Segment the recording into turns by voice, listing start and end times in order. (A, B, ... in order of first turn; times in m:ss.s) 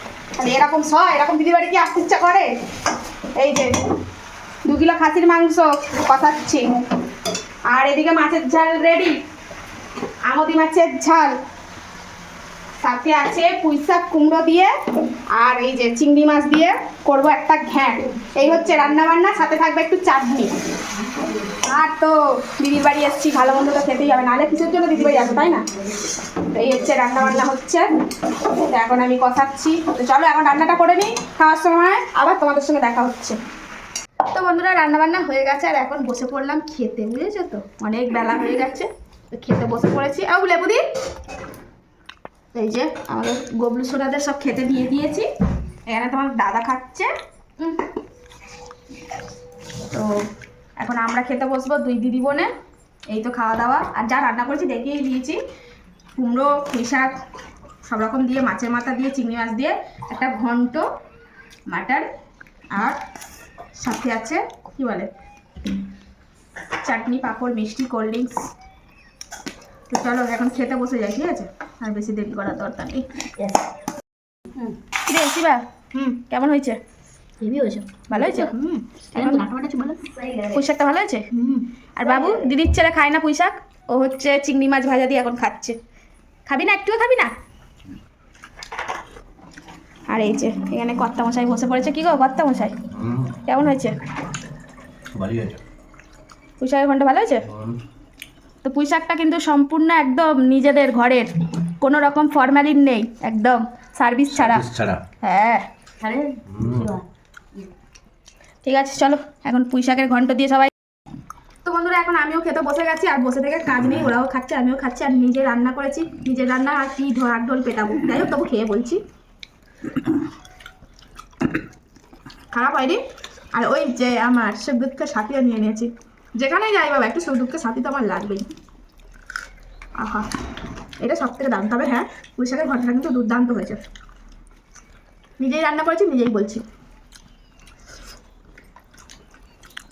0:00.4-0:02.5 A
0:03.4-0:03.8 A
0:04.7-0:06.7 A
0:07.7-0:09.2 A
0:10.3-0:11.3 A
0:12.8-0:14.7 A
0:15.3-0:20.5 A
0:21.5-0:25.6 A
0:26.5-0:33.4 A
0:34.3-0:40.8 A
0:42.5-0:45.3 A
0:45.9-0:47.8 A
0:49.9-0:50.2 A
0:50.8-0:52.5 A
0:53.1-0:55.4 A
0:56.2-0:57.1 A
0:57.8-1:00.9 A
1:01.7-1:02.1 A
1:02.7-1:03.0 A
1:03.8-1:05.1 A
1:06.8-1:08.4 A
1:09.9-1:13.0 A
1:13.4-1:13.7 B
1:15.0-1:16.8 A
1:17.4-1:20.6 B
1:18.1-1:18.6 A
1:19.1-1:19.5 A
1:20.5-1:21.2 A
1:21.3-1:22.4 B
1:22.0-1:25.8 A
1:26.5-1:27.3 A
1:30.1-1:32.8 A
1:32.9-1:33.4 C
1:33.5-1:34.0 A
1:35.2-1:35.6 C
1:36.6-1:37.4 A
1:37.5-1:37.8 C
1:38.6-1:44.7 A
1:44.3-1:45.0 C
1:45.2-1:45.6 A
1:46.0-1:47.0 B
1:46.5-1:46.9 C
1:48.6-1:50.7 A
1:51.6-1:59.0 A
2:02.5-2:03.0 A
2:03.6-2:08.5 A
2:10.0-2:10.3 A
2:11.0-2:13.8 A
2:15.4-2:16.6 A